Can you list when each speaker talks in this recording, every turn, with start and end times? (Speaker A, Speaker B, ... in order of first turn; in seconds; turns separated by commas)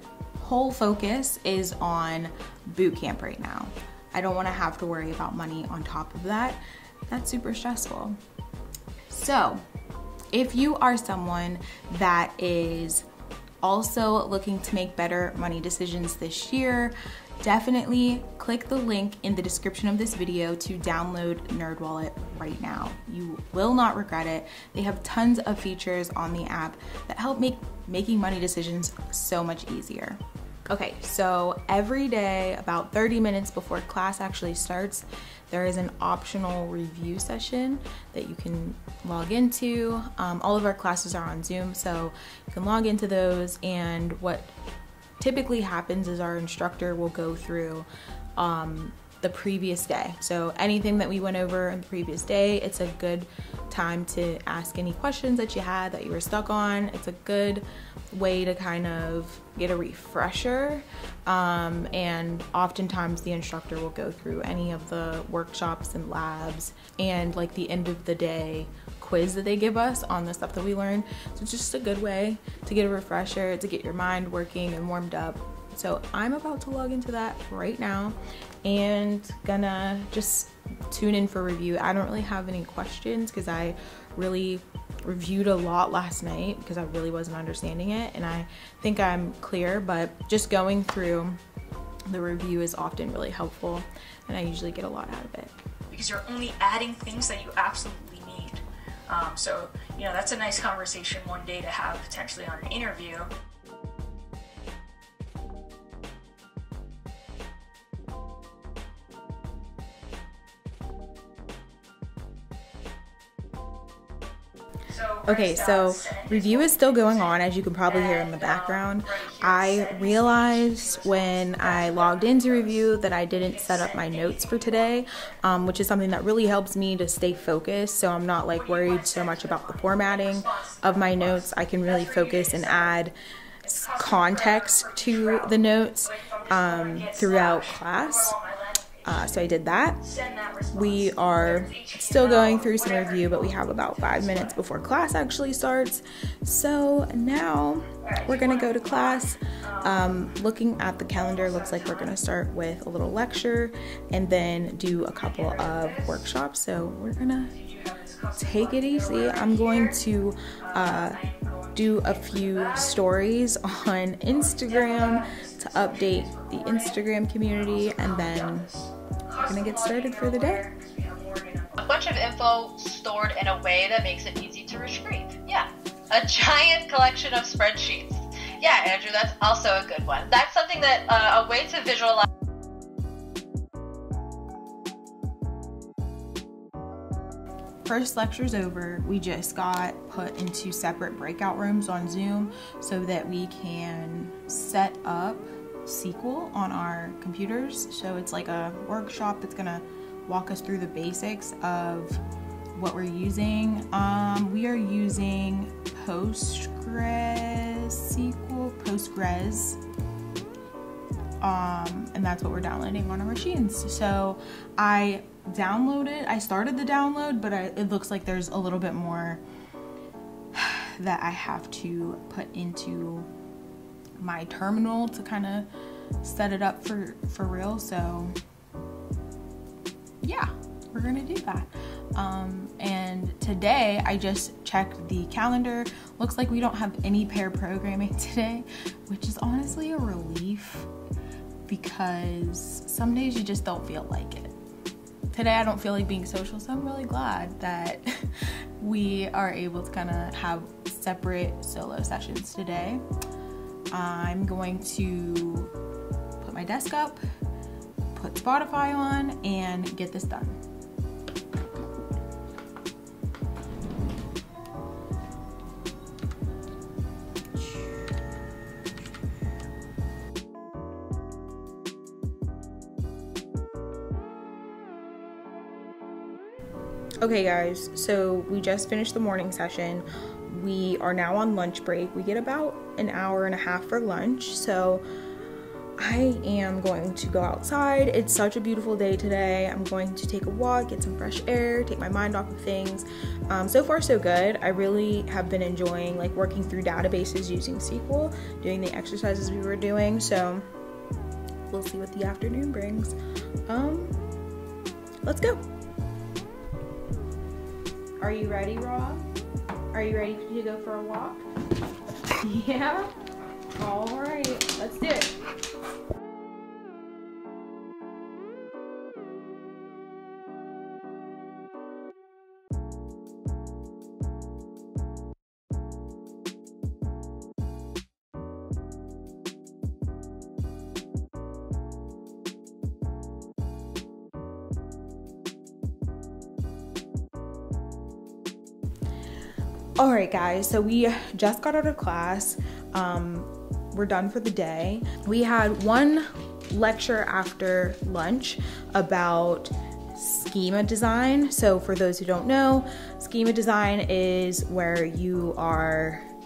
Speaker A: 0.4-8.2, Speaker A: 9.1-9.6, Speaker A: 10.3-13.1, Speaker A: 13.6-44.5, Speaker A: 45.2-91.4, Speaker A: 92.1-95.5, Speaker B: 95.9-103.3, Speaker B: 114.9-125.0, Speaker A: 115.2-133.1, Speaker B: 128.5-133.0, Speaker B: 133.6-139.5, Speaker A: 133.8-138.3, Speaker A: 139.0-140.0, Speaker B: 140.0-144.6, Speaker A: 140.7-157.5, Speaker B: 148.0-150.4, Speaker B: 151.1-152.2, Speaker B: 155.0-156.3, Speaker B: 157.5-160.0, Speaker A: 158.4-161.2, Speaker B: 160.6-163.0, Speaker A: 161.8-168.7, Speaker B: 164.2-172.0, Speaker A: 169.4-170.7, Speaker C: 171.8-182.2, Speaker A: 187.8-202.2, Speaker A: 202.7-209.8, Speaker A: 211.4-219.4, Speaker A: 220.5-223.3, Speaker A: 224.2-225.7, Speaker A: 226.2-228.3, Speaker A: 230.2-240.9, Speaker A: 241.7-244.5, Speaker A: 245.3-248.1, Speaker A: 248.8-253.0, Speaker A: 253.9-255.7, Speaker A: 256.4-257.2, Speaker A: 258.1-260.6, Speaker A: 277.2-285.0, Speaker A: 286.0-300.6, Speaker A: 301.7-303.1, Speaker A: 303.7-304.1, Speaker A: 305.2-305.6, Speaker A: 308.2-309.2, Speaker A: 309.9-311.4, Speaker A: 312.4-313.1, Speaker A: 313.7-315.3, Speaker A: 340.0-356.3